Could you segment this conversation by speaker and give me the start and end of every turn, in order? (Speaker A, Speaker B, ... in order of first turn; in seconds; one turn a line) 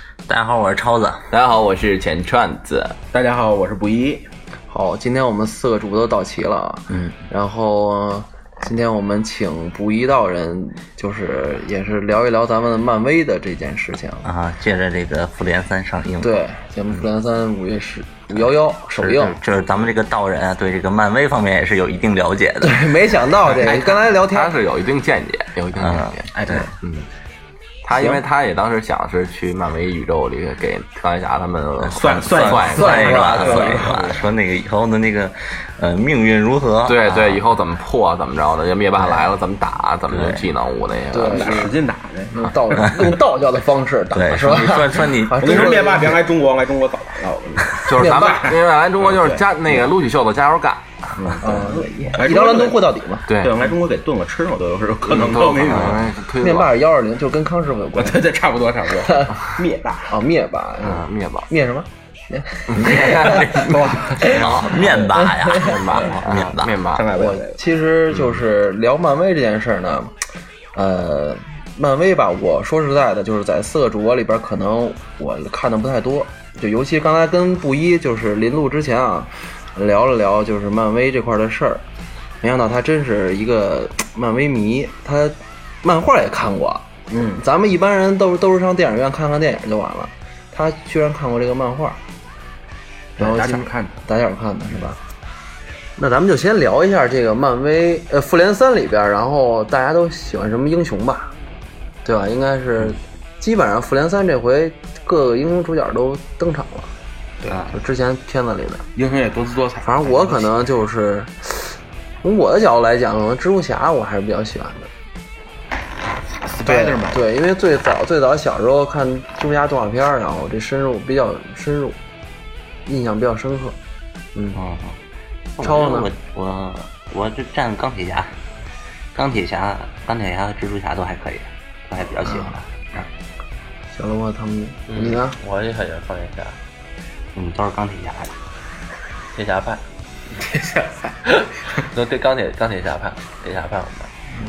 Speaker A: 0.3-1.2
Speaker B: 1.3-2.9
Speaker C: 1.3-2.0
Speaker C: 2.5-2.9
Speaker D: 3.1-4.3
Speaker E: 4.7-14.3
Speaker A: 14.2-16.4
Speaker E: 16.2-19.4
Speaker A: 19.0-22.9
Speaker E: 22.6-24.5
Speaker C: 23.6-26.1
Speaker B: 23.7-26.3
Speaker A: 25.7-26.6
Speaker D: 26.3-26.7
Speaker C: 27.9-32.7
Speaker B: 27.9-33.7
Speaker D: 31.9-34.2
Speaker A: 32.0-37.5
Speaker E: 32.6-34.0
Speaker B: 36.9-41.6
Speaker C: 36.9-41.6
Speaker E: 41.1-41.7
Speaker D: 41.2-43.0
Speaker E: 42.3-46.2
Speaker A: 44.1-45.5
Speaker D: 45.4-49.5
Speaker E: 47.9-48.5
Speaker C: 47.9-50.8
Speaker B: 47.9-50.6
Speaker D: 51.2-56.1
Speaker E: 51.4-53.3
Speaker B: 55.2-56.6
Speaker C: 55.3-56.5
Speaker E: 56.4-58.2
Speaker D: 58.0-60.1
Speaker E: 59.0-59.5
Speaker E: 60.1-61.9
Speaker C: 61.0-61.4
Speaker D: 62.3-65.0
Speaker E: 62.7-64.5
Speaker B: 62.7-63.6
Speaker A: 62.7-66.8
Speaker E: 65.1-66.1
Speaker B: 65.6-67.0
Speaker C: 65.7-67.0
Speaker D: 66.8-67.6
Speaker E: 67.1-70.1
Speaker E: 70.7-81.8
Speaker E: 82.4-92.0
Speaker D: 87.1-87.4
Speaker D: 93.2-94.0
Speaker E: 93.2-95.0
Speaker E: 96.0-101.3
Speaker E: 102.0-106.9
Speaker A: 107.4-107.7
Speaker E: 107.7-108.8
Speaker D: 109.0-110.6
Speaker E: 109.8-114.9
Speaker D: 116.5-117.2
Speaker E: 116.6-122.0
Speaker E: 122.8-123.8
Speaker E: 124.3-124.6
Speaker A: 124.5-125.0
Speaker A: 125.6-128.3
Speaker E: 125.6-126.1
Speaker A: 129.1-132.8
Speaker E: 132.2-132.6
Speaker E: 133.9-135.4
Speaker C: 134.9-136.6
Speaker A: 137.3-138.3
Speaker C: 139.3-139.8
Speaker D: 140.3-141.2
Speaker C: 141.2-144.1